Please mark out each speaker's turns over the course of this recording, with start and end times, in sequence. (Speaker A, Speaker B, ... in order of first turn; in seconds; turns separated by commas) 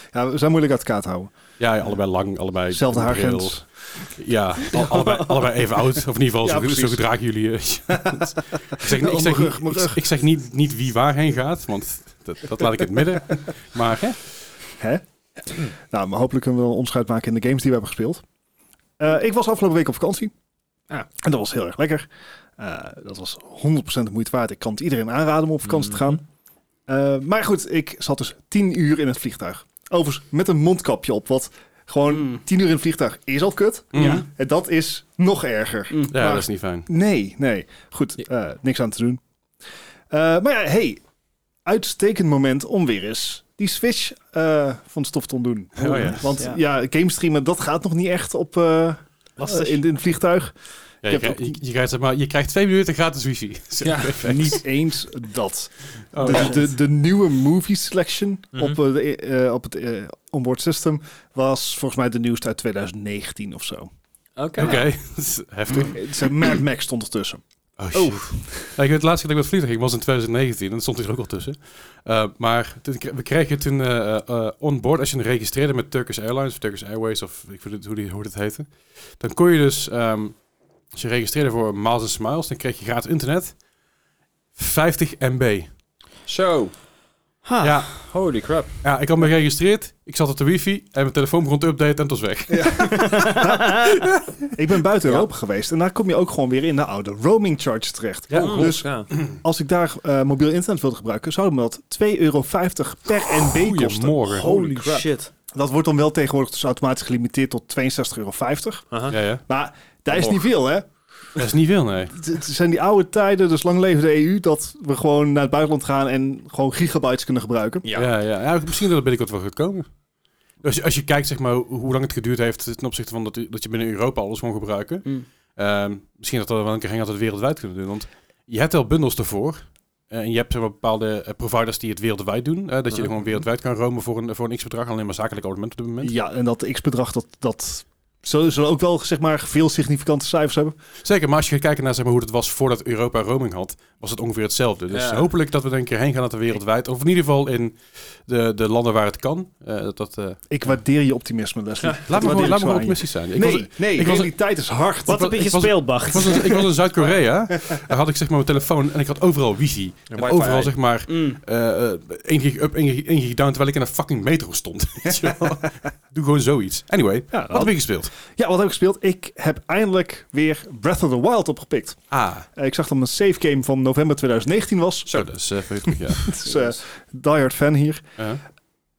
Speaker A: 0.1-1.3, Speaker B: 1.6-14.3, Speaker A: 2.7-3.6, Speaker A: 4.7-5.2, Speaker A: 6.4-7.0, Speaker A: 7.9-10.0, Speaker A: 15.6-18.2, Speaker A: 19.0-20.3, Speaker A: 21.2-26.2, Speaker C: 25.6-26.1, Speaker A: 26.9-39.2, Speaker D: 32.1-32.4, Speaker B: 33.9-34.2, Speaker D: 34.0-34.2, Speaker B: 36.1-36.9, Speaker A: 40.1-41.0, Speaker A: 41.6-50.5, Speaker B: 45.8-46.4, Speaker D: 45.9-46.6, Speaker C: 49.4-49.8, Speaker A: 51.0-51.6, Speaker B: 51.0-54.6, Speaker C: 53.8-54.2, Speaker A: 54.2-63.9, Speaker B: 56.1-56.6, Speaker C: 64.4-64.8, Speaker B: 64.6-66.2, Speaker A: 64.6-64.8, Speaker A: 65.9-67.4, Speaker B: 67.8-80.4, Speaker A: 67.9-68.2, Speaker B: 80.9-83.5, Speaker B: 84.6-85.7, Speaker C: 86.3-86.7, Speaker D: 87.5-87.9, Speaker B: 87.6-88.1, Speaker C: 88.1-88.8, Speaker B: 88.8-94.3, Speaker A: 92.5-93.9, Speaker D: 92.9-93.9, Speaker A: 94.4-110.9, Speaker B: 98.3-99.3, Speaker C: 98.3-99.1, Speaker B: 103.4-104.5, Speaker D: 104.3-105.3, Speaker C: 108.9-109.2, Speaker B: 109.1-109.4, Speaker C: 110.1-110.4, Speaker B: 111.3-112.2, Speaker A: 112.2-117.8, Speaker C: 117.8-118.1, Speaker B: 117.9-119.9, Speaker B: 120.6-136.1, Speaker A: 136.0-140.8, Speaker B: 141.0-150.4, Speaker C: 144.9-145.3, Speaker A: 150.5-155.4, Speaker C: 151.8-152.6, Speaker B: 152.1-154.3, Speaker D: 155.1-156.6, Speaker B: 155.1-168.1, Speaker C: 160.1-160.7, Speaker D: 161.1-161.4, Speaker A: 165.1-165.4, Speaker A: 167.3-172.0, Speaker B: 172.1-172.5, Speaker A: 172.6-175.2, Speaker B: 175.1-176.4, Speaker A: 175.9-178.0, Speaker D: 176.4-176.8